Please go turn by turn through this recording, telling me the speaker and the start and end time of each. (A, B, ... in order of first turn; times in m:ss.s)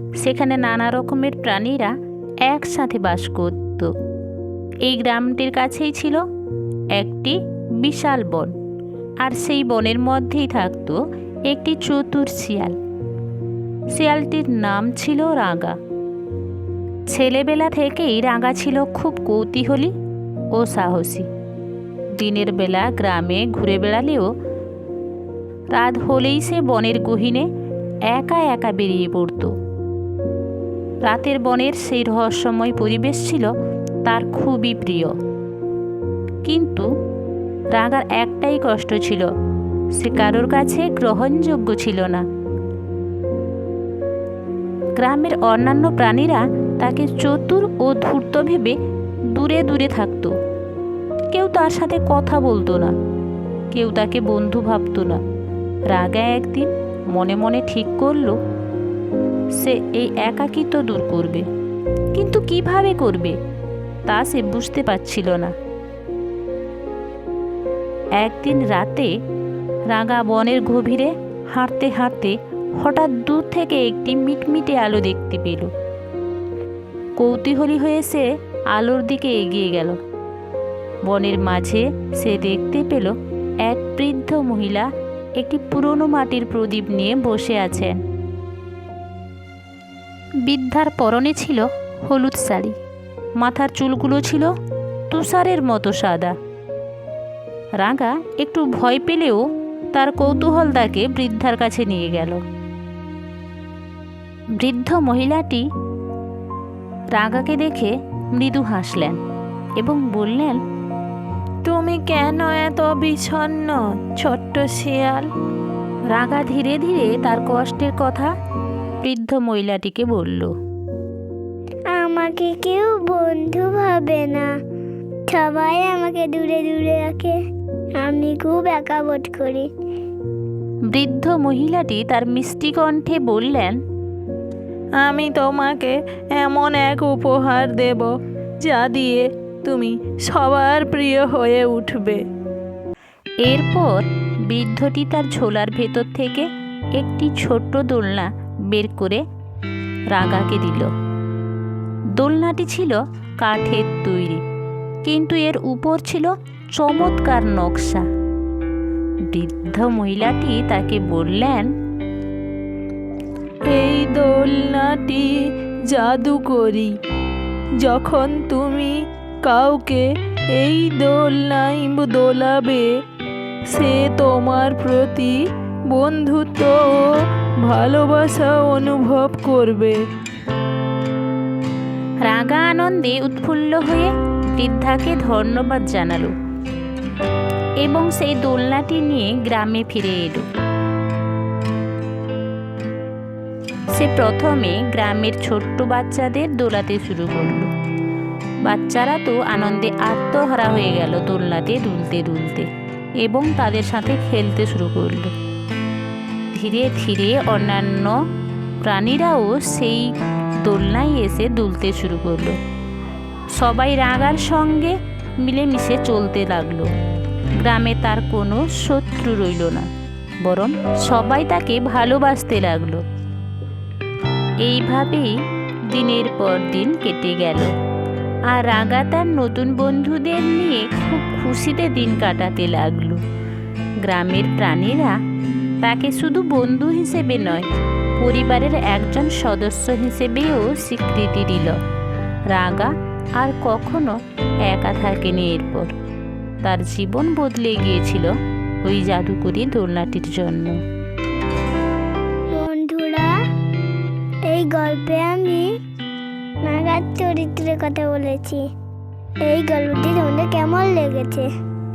0:00.2-0:01.9 A
0:02.4-0:03.9 A
0:04.8-0:06.2 A
0:06.9-0:08.5 A
0:09.2-0:12.8 A
0:13.9-0:15.8 A
0:17.1-0:19.9 A
0:20.5-0:21.3 A
0:22.1-0:24.3 A
0:25.7-0:27.5 A
0:28.1-0:29.5 A
0:31.0-0:33.5 A
0:34.0-0:35.1 A
0:36.4-0:36.9 A
0:37.7-0:39.3 A
0:40.0-0:42.2 A
0:45.0-0:48.8 A
0:49.3-0:50.3 A
0:51.3-0:52.9 A
0:53.7-0:55.2 A
0:55.9-0:58.4 A
0:59.6-1:01.4 A
1:02.1-1:03.4 A
1:04.1-1:05.5 A
1:08.2-1:09.1 A
1:09.9-1:15.7 A
1:17.2-1:20.0 A
1:21.0-1:23.1 A
1:23.6-1:28.0 A
1:30.4-1:32.8 A
1:33.4-1:34.5 A
1:35.1-1:36.3 A
1:37.8-1:39.4 A
1:39.9-1:42.4 A
1:44.6-1:45.6 A
1:47.1-1:49.2 A
1:49.8-1:50.6 A
1:51.6-1:55.3 B
1:56.1-1:58.3 A
1:59.0-2:00.5 A
2:01.9-2:04.5 C
2:05.3-2:07.4 C
2:08.0-2:09.7 C
2:10.9-2:13.8 A
2:15.0-2:18.1 B
2:18.6-2:22.2 B
2:23.4-2:29.2 A
2:30.1-2:30.9 A
2:32.2-2:34.4 A
2:35.0-2:38.0 A
2:39.3-2:41.7 A
2:43.7-2:45.3 B
2:45.9-2:46.9 B
2:47.8-2:52.9 B
2:53.7-2:55.4 B
2:55.9-3:00.0 B
3:02.2-3:06.3 A
3:07.8-3:10.4 A
3:13.9-3:17.7 A
3:18.6-3:22.7 A
3:23.2-3:25.3 A
3:26.5-3:28.2 A
3:28.8-3:30.1 A
3:30.6-3:32.6 A
3:33.6-3:36.9 A
3:37.6-3:39.9 A
3:40.4-3:43.0 A
3:44.6-3:45.3 A
3:45.9-3:47.7 A
3:48.5-3:53.2 A
3:54.0-3:55.2 A
3:55.8-3:57.7 A
3:58.2-4:01.8 A
4:02.5-4:05.9 A
4:06.6-4:08.3 A
4:08.8-4:10.8 A
4:12.5-4:13.4 C
4:14.5-4:15.7 C
4:16.6-4:18.6 C
4:19.4-4:21.5 C